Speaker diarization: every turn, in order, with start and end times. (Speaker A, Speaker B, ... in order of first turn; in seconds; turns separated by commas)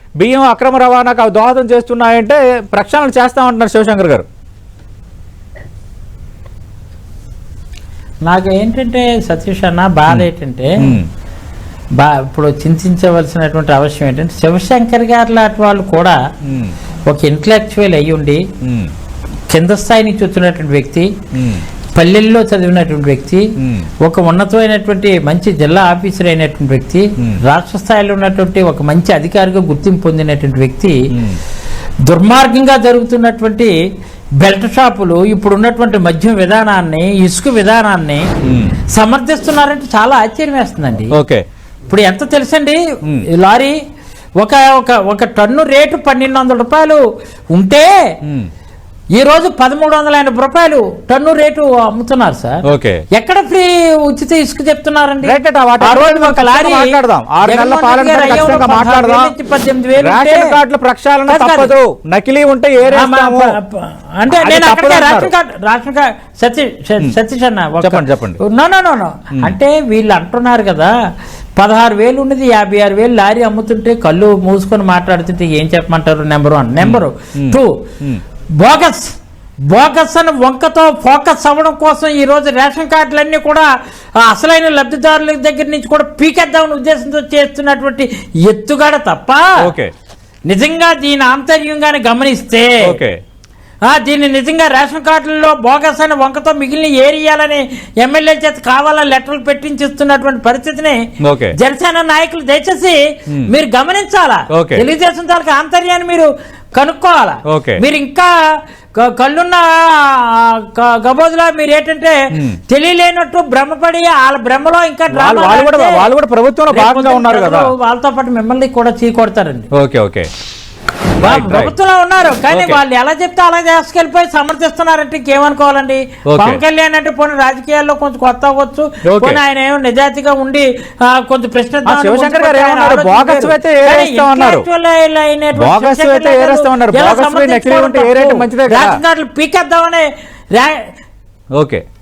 Speaker A: 0.2-4.2, Speaker B: 8.3-11.0, Speaker A: 10.8-11.1, Speaker B: 12.0-16.2, Speaker A: 16.5-16.8, Speaker B: 17.1-18.4, Speaker A: 18.6-18.9, Speaker B: 19.5-21.1, Speaker A: 21.3-21.6, Speaker B: 21.9-23.5, Speaker A: 23.6-23.9, Speaker B: 24.0-31.0, Speaker A: 31.1-31.4, Speaker B: 32.1-33.7, Speaker B: 34.4-38.3, Speaker A: 38.4-38.8, Speaker B: 39.0-41.1, Speaker A: 41.1-41.4, Speaker B: 41.9-42.8, Speaker B: 43.4-43.8, Speaker B: 44.4-47.0, Speaker B: 47.6-47.9, Speaker A: 48.2-48.5, Speaker B: 49.2-52.6, Speaker A: 52.6-53.0, Speaker B: 53.1-60.5, Speaker A: 55.2-59.3, Speaker A: 60.0-63.5, Speaker B: 61.3-61.7, Speaker B: 62.9-70.9, Speaker A: 64.3-65.3, Speaker A: 67.8-68.4, Speaker B: 71.6-77.7, Speaker A: 76.8-78.2, Speaker B: 78.6-79.2, Speaker B: 79.7-89.5, Speaker A: 89.6-89.9, Speaker B: 90.5-93.0, Speaker A: 92.8-93.2, Speaker B: 93.9-101.0, Speaker A: 101.2-101.5, Speaker B: 101.6-108.3, Speaker A: 104.5-104.8, Speaker A: 107.5-107.8, Speaker B: 109.0-116.1, Speaker A: 112.3-112.6, Speaker A: 115.1-117.7, Speaker B: 116.7-119.7, Speaker A: 119.7-120.3, Speaker A: 121.2-121.7, Speaker B: 121.2-140.8, Speaker A: 122.5-122.8, Speaker A: 126.3-126.6, Speaker A: 129.1-129.4, Speaker A: 131.8-134.7, Speaker A: 135.6-139.0, Speaker A: 141.6-141.8